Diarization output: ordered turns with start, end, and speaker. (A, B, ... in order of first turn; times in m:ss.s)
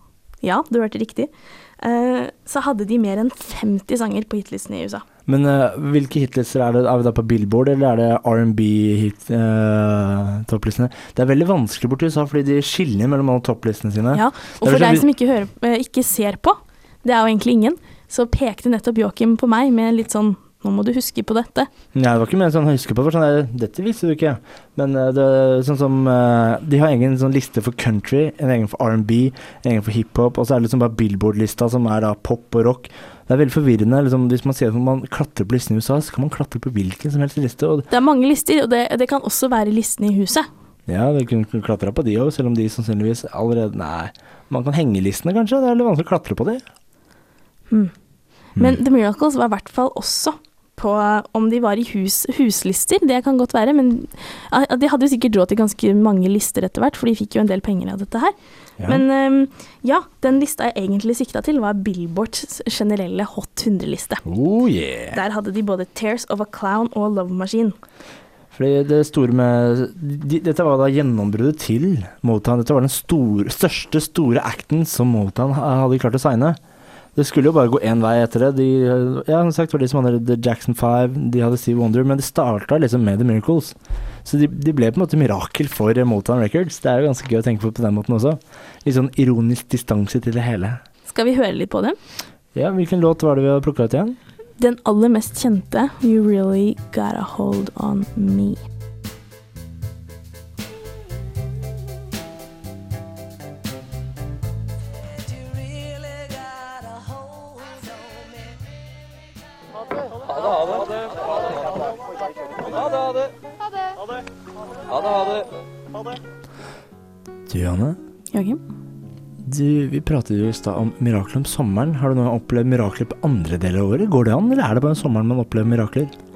0:00.4-0:05.0 A
0:05.3-0:15.1 B
0:14.1-0:21.7 A
0:22.0-0:37.9 B
0:37.9-0:40.5 A
0:40.9-0:46.6 B
0:48.6-0:58.3 A
0:58.8-0:59.0 B
0:58.9-1:04.2 A
1:04.2-1:05.2 B
1:05.1-1:07.8 A
1:08.5-1:16.6 B
1:17.2-1:30.8 B
1:31.1-1:32.0 A
1:32.6-1:34.2 B
1:34.6-1:38.6 A
1:57.5-1:58.0 B
1:58.3-1:58.6 A
1:59.4-2:06.1 B